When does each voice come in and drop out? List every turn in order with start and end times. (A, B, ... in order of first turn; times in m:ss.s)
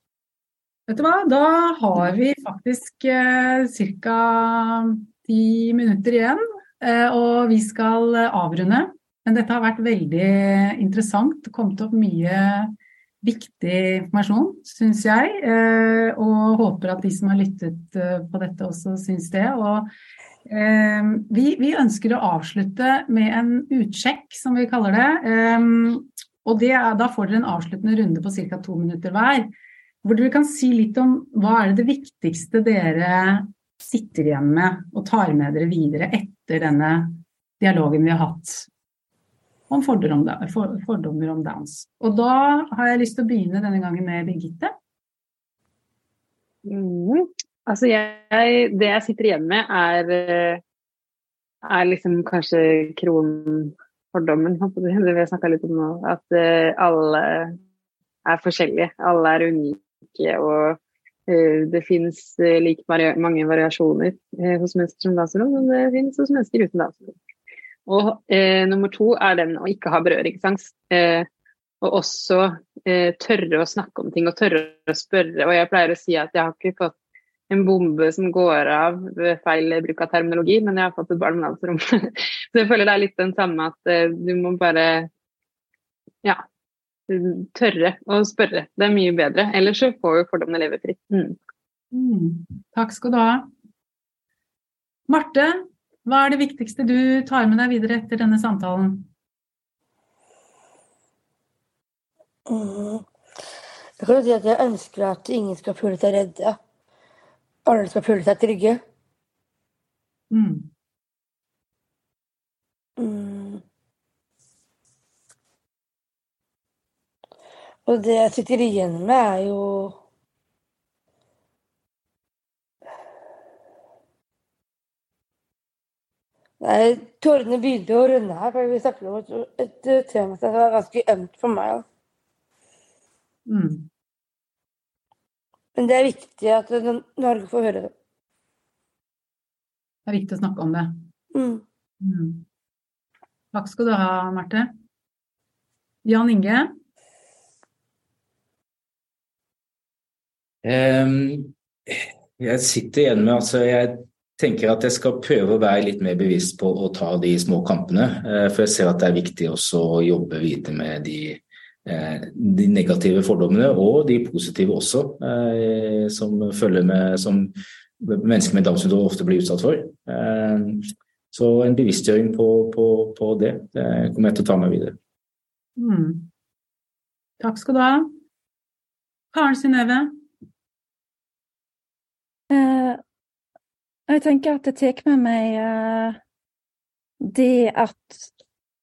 0:00.9-0:19.9 A
0:20.4-0:29.5 A
0:30.0-0:38.7 A
0:39.7-0:44.7 A
0:46.6-0:50.6 B
0:51.6-0:57.6 B
0:58.2-1:07.1 B
1:07.9-1:11.3 B
1:11.8-1:16.9 B
1:17.5-1:25.1 B
1:27.1-1:31.4 B
1:31.9-1:33.5 A
1:35.1-1:39.1 A
1:42.5-1:43.0 C
1:44.0-1:46.6 C
1:47.6-1:48.8 C
1:50.3-1:50.7 A
1:53.0-1:53.6 C
1:57.8-2:00.0 C
2:06.6-2:11.8 C
2:13.4-2:13.9 A
2:15.8-2:17.9 C
2:20.0-2:21.0 A
2:21.3-2:21.6 C
2:22.0-2:22.4 A
2:23.5-2:24.7 A
2:26.0-2:26.7 A
2:30.6-2:55.0 D
2:55.8-2:56.3 A
2:57.4-2:58.1 A
2:59.3-3:00.2 A
3:02.5-3:03.0 E
3:04.1-3:06.2 E
3:07.2-3:08.3 E